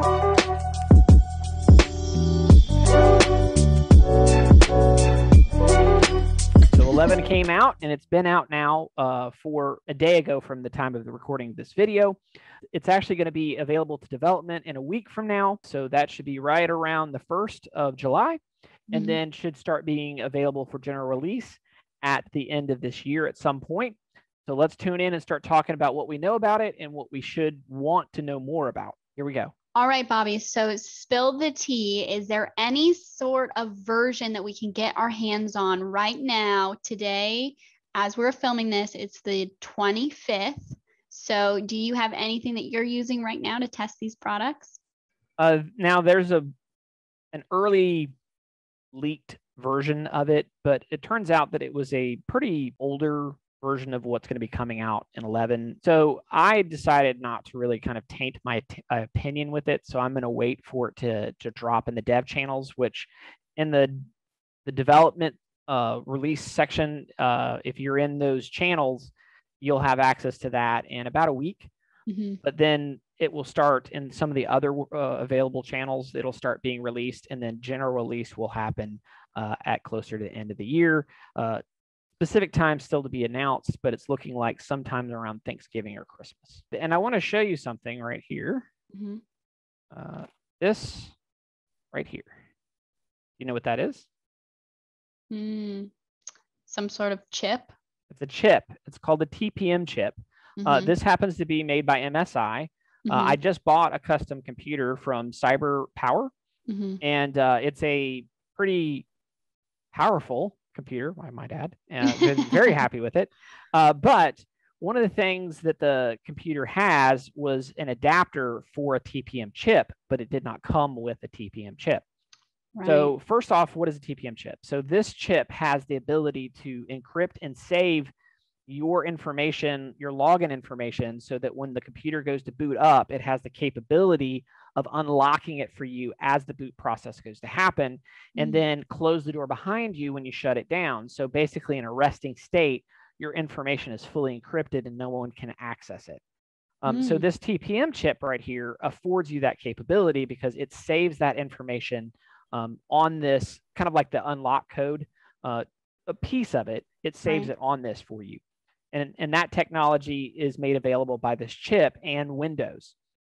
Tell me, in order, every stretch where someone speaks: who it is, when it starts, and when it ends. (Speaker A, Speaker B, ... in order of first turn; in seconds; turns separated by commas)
Speaker A: 6.7-12.2, Speaker A: 12.7-29.5, Speaker B: 18.9-19.2, Speaker B: 29.8-44.8, Speaker A: 45.4-46.5, Speaker A: 47.3-48.1, Speaker A: 48.9-64.1, Speaker A: 64.7-71.7, Speaker B: 72.1-72.4, Speaker A: 72.4-81.6, Speaker A: 82.2-88.7, Speaker B: 88.9-89.2, Speaker A: 89.9-91.2, Speaker A: 91.9-92.3, Speaker A: 93.4-94.1, Speaker B: 95.3-95.9, Speaker B: 96.7-97.7, Speaker A: 98.1-106.3, Speaker B: 100.6-100.9, Speaker B: 103.0-103.4, Speaker B: 106.7-107.0, Speaker A: 107.0-109.1, Speaker A: 109.9-122.0, Speaker B: 122.8-123.1, Speaker A: 122.8-128.1, Speaker A: 128.7-146.2, Speaker B: 138.4-138.6, Speaker A: 146.8-158.4, Speaker B: 146.9-147.2, Speaker B: 157.3-157.5, Speaker A: 158.9-162.9